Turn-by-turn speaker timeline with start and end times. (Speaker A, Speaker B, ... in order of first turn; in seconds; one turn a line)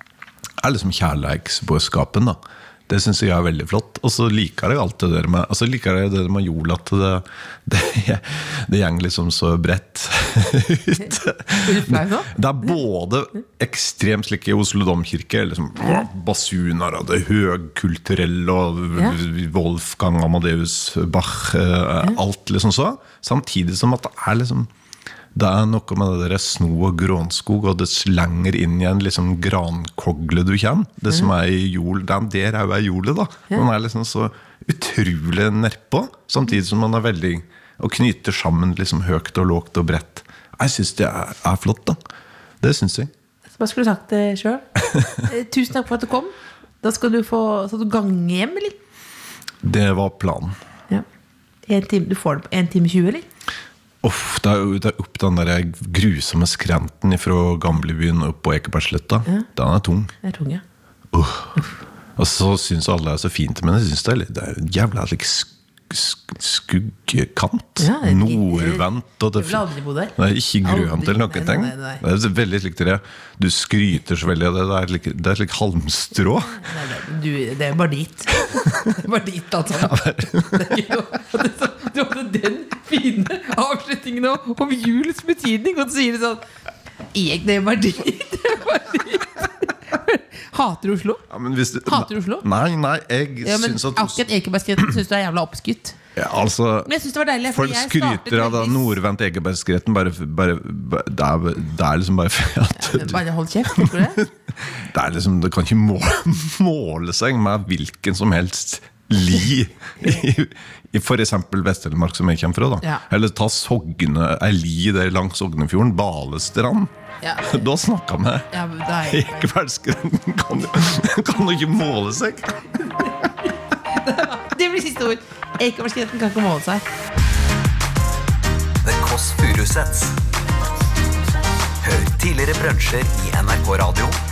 Speaker A: 0.6-24.7
Speaker B: 11.6-12.3
Speaker A: 25.3-42.0
Speaker A: 42.6-43.1
Speaker B: 43.5-44.6
Speaker A: 44.9-45.2
Speaker B: 45.2-48.8
Speaker A: 49.6-50.6
Speaker B: 51.7-53.2
Speaker A: 54.0-60.1
Speaker B: 60.2-60.6
Speaker A: 61.1-69.6
Speaker B: 67.8-68.8
Speaker B: 69.3-72.0
Speaker A: 70.2-76.6
Speaker B: 76.5-86.4
Speaker A: 78.5-79.0
Speaker A: 79.7-80.9
Speaker B: 87.1-91.2
Speaker A: 91.3-94.2
Speaker B: 91.8-92.5
Speaker B: 93.4-96.0
Speaker A: 96.2-96.9
Speaker B: 96.8-98.9
Speaker A: 97.5-103.2
Speaker B: 102.7-104.2
Speaker A: 103.7-118.5
Speaker B: 117.2-117.6
Speaker B: 118.5-119.4
Speaker A: 119.0-122.6
Speaker B: 123.9-126.8
Speaker C: 128.8-130.2
Speaker C: 131.8-134.2